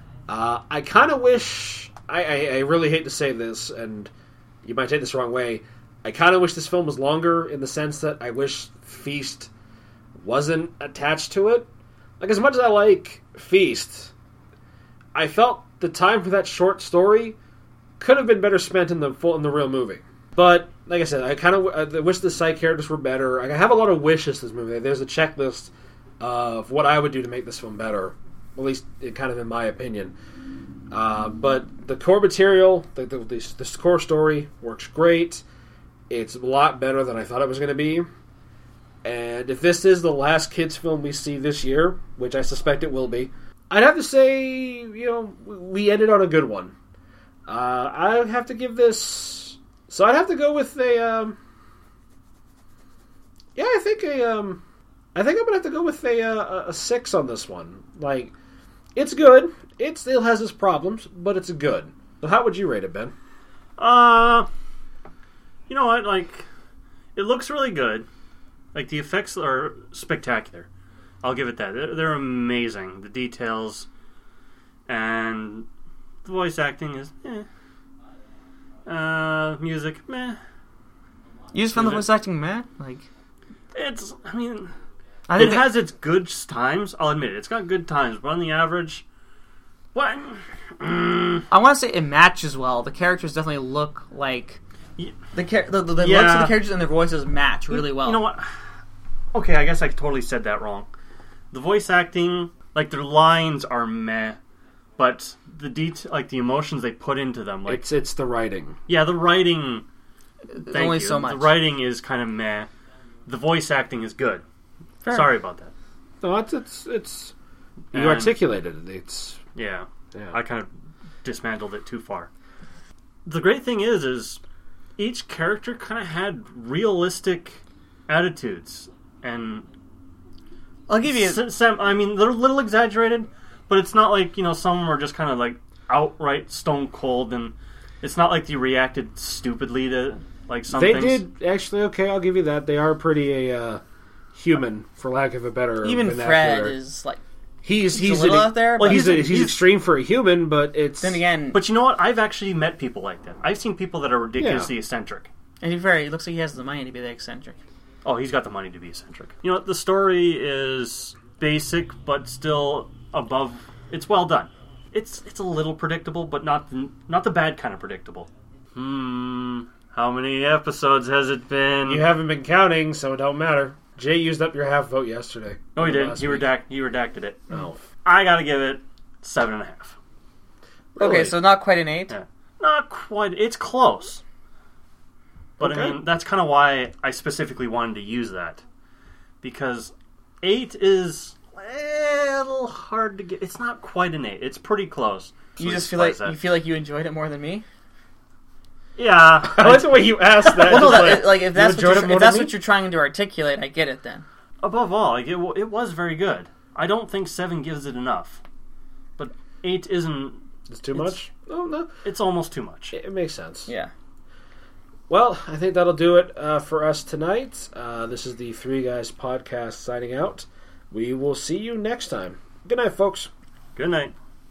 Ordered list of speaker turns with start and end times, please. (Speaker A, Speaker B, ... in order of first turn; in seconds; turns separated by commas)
Speaker A: 0.3-4.1, Speaker A: 4.6-9.5, Speaker A: 10.2-11.7, Speaker A: 12.2-14.1, Speaker A: 15.2-17.4, Speaker A: 18.0-30.1, Speaker A: 30.9-35.4, Speaker A: 36.1-38.1, Speaker A: 39.0-46.8, Speaker A: 47.5-51.4, Speaker A: 53.6-54.6, Speaker A: 55.1-58.3, Speaker A: 59.0-63.1, Speaker B: 63.8-64.5, Speaker B: 65.7-66.5, Speaker B: 67.2-68.1, Speaker B: 68.7-70.7, Speaker B: 71.2-73.9, Speaker B: 74.9-75.7, Speaker B: 76.2-77.5, Speaker B: 78.9-80.4, Speaker C: 81.5-83.1, Speaker B: 81.7-82.1, Speaker B: 83.7-84.7, Speaker C: 85.3-85.7, Speaker B: 85.4-89.0, Speaker B: 89.9-91.5, Speaker C: 91.5-94.6, Speaker C: 95.3-98.2, Speaker B: 96.0-96.6, Speaker B: 97.7-98.5, Speaker B: 99.3-100.9, Speaker B: 101.5-104.4, Speaker B: 105.0-107.8, Speaker A: 107.7-108.8, Speaker B: 108.9-109.8, Speaker C: 110.7-111.5, Speaker B: 110.7-112.7, Speaker B: 113.3-114.4, Speaker C: 115.0-115.3, Speaker B: 115.1-115.7, Speaker A: 116.2-117.3, Speaker B: 117.9-118.4, Speaker A: 117.9-119.4, Speaker B: 119.5-120.7, Speaker B: 121.2-122.3, Speaker B: 123.3-124.4, Speaker B: 125.0-129.7, Speaker C: 130.9-131.4, Speaker B: 131.1-141.2, Speaker A: 140.7-143.8, Speaker A: 144.3-146.8, Speaker C: 145.8-147.2, Speaker A: 147.7-151.2, Speaker C: 147.9-149.2, Speaker B: 148.8-149.6, Speaker C: 151.0-151.6, Speaker B: 151.5-155.3, Speaker A: 154.4-154.7, Speaker C: 155.6-157.6, Speaker B: 158.0-172.0, Speaker A: 171.9-176.5, Speaker B: 175.8-180.0, Speaker A: 177.5-177.8, Speaker A: 180.9-181.3, Speaker C: 181.0-182.1, Speaker B: 182.1-184.2, Speaker A: 185.6-186.0, Speaker B: 185.6-188.6, Speaker B: 189.4-196.4, Speaker C: 195.6-197.6, Speaker B: 199.0-202.5, Speaker A: 199.4-202.5, Speaker C: 200.7-204.2, Speaker B: 204.6-208.4, Speaker B: 209.2-210.4, Speaker A: 210.7-211.9, Speaker B: 212.0-212.9, Speaker A: 212.9-213.7, Speaker A: 215.1-223.3, Speaker B: 223.8-224.1